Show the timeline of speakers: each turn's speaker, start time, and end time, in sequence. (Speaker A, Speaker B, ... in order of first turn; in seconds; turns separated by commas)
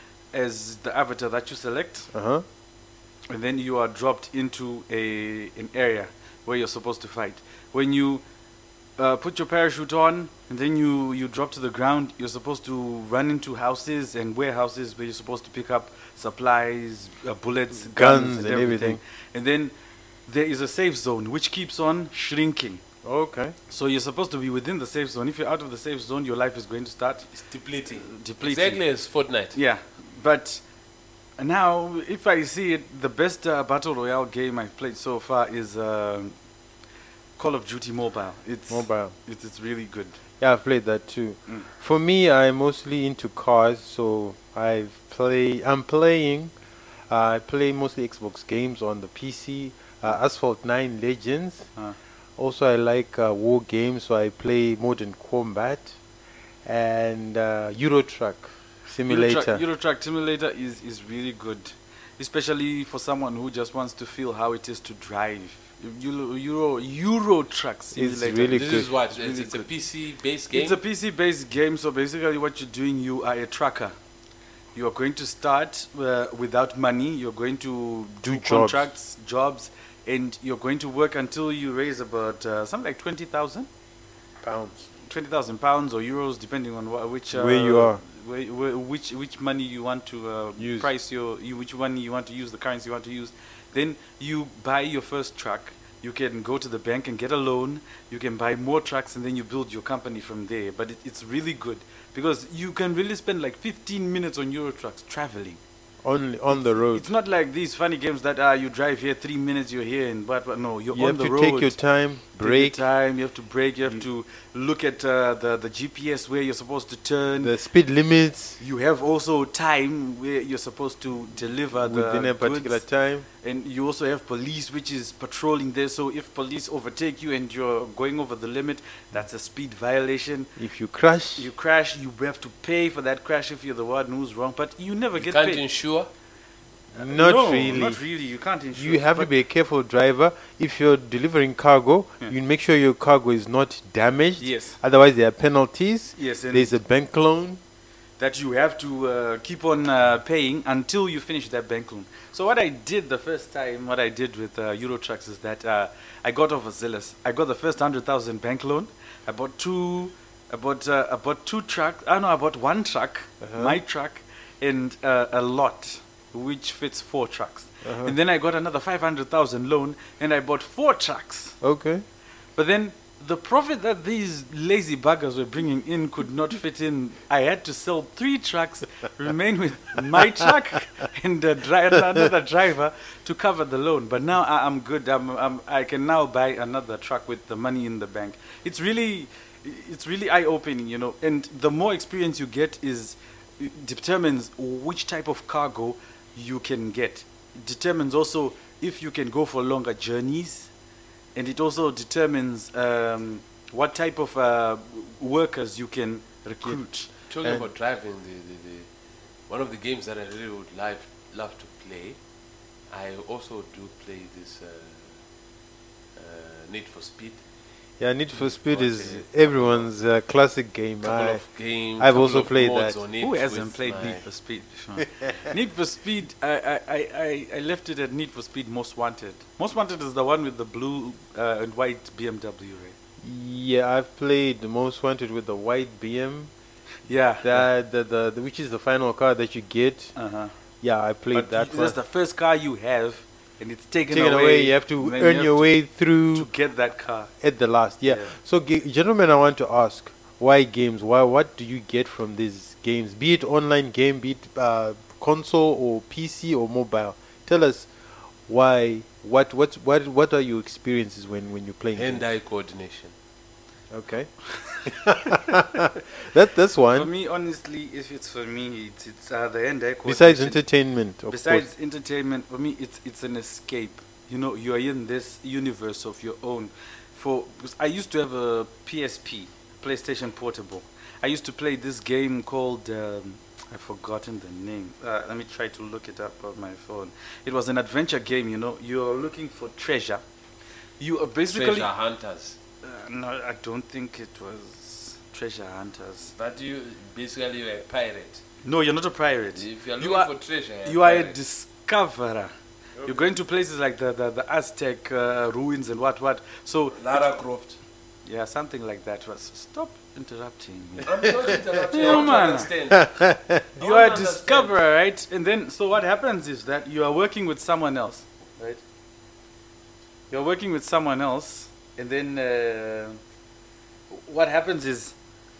Speaker A: 0.3-2.1, Speaker B: 2.1-2.4, Speaker A: 3.3-8.2, Speaker A: 9.0-19.7, Speaker B: 17.9-19.0, Speaker A: 20.2-22.8, Speaker B: 23.0-23.5, Speaker A: 23.7-27.3, Speaker C: 27.3-29.6, Speaker A: 28.0-28.8, Speaker A: 29.5-30.6, Speaker A: 31.4-36.3, Speaker A: 37.4-40.2, Speaker B: 38.7-39.1, Speaker B: 40.4-46.5, Speaker B: 47.1-51.7, Speaker B: 52.4-56.0, Speaker B: 56.6-59.6, Speaker A: 59.1-69.7, Speaker B: 67.9-68.9, Speaker C: 68.5-70.8, Speaker A: 70.5-74.0, Speaker A: 74.7-83.7, Speaker B: 78.2-78.9, Speaker B: 84.4-84.9, Speaker A: 85.0-105.6, Speaker B: 87.3-88.0, Speaker B: 90.6-90.9, Speaker B: 106.0-107.1, Speaker A: 106.5-111.8, Speaker B: 110.9-112.8, Speaker A: 112.4-117.5, Speaker B: 117.4-118.6, Speaker A: 118.6-122.8, Speaker B: 121.8-123.3, Speaker A: 123.4-130.5, Speaker B: 130.6-131.5, Speaker A: 131.3-135.6, Speaker C: 135.2-136.1, Speaker A: 136.9-139.3, Speaker B: 136.9-138.0, Speaker B: 138.7-147.6, Speaker A: 144.4-144.8, Speaker A: 146.2-146.7, Speaker A: 148.2-171.6, Speaker B: 163.4-163.8, Speaker B: 167.8-168.1, Speaker B: 171.6-172.0, Speaker A: 172.6-200.7, Speaker A: 201.3-207.1, Speaker C: 207.3-208.9, Speaker C: 209.5-212.2, Speaker C: 212.9-215.2, Speaker C: 216.2-217.4, Speaker B: 218.0-221.4, Speaker C: 218.3-219.9, Speaker C: 221.0-224.2, Speaker B: 222.0-223.0, Speaker A: 223.2-232.9, Speaker B: 233.2-236.5, Speaker A: 237.1-237.7, Speaker B: 237.4-240.1, Speaker A: 240.1-240.5, Speaker B: 240.8-241.9, Speaker A: 241.3-245.7, Speaker B: 244.1-246.5, Speaker A: 246.3-247.3, Speaker B: 247.4-257.9, Speaker A: 248.1-248.3, Speaker B: 258.5-262.2, Speaker C: 261.9-263.1, Speaker B: 263.9-267.1, Speaker A: 266.9-270.6, Speaker B: 270.0-271.6, Speaker A: 271.3-290.2, Speaker A: 291.0-291.9, Speaker C: 291.5-292.6, Speaker A: 292.8-296.3, Speaker C: 296.4-298.4, Speaker A: 298.6-302.5, Speaker C: 299.5-301.4, Speaker C: 303.0-303.3, Speaker A: 303.0-307.3, Speaker C: 306.9-307.8, Speaker A: 308.2-312.7, Speaker C: 311.0-314.8, Speaker B: 312.0-312.4, Speaker B: 312.9-313.6, Speaker A: 313.8-318.8, Speaker A: 320.3-323.2, Speaker A: 324.1-325.1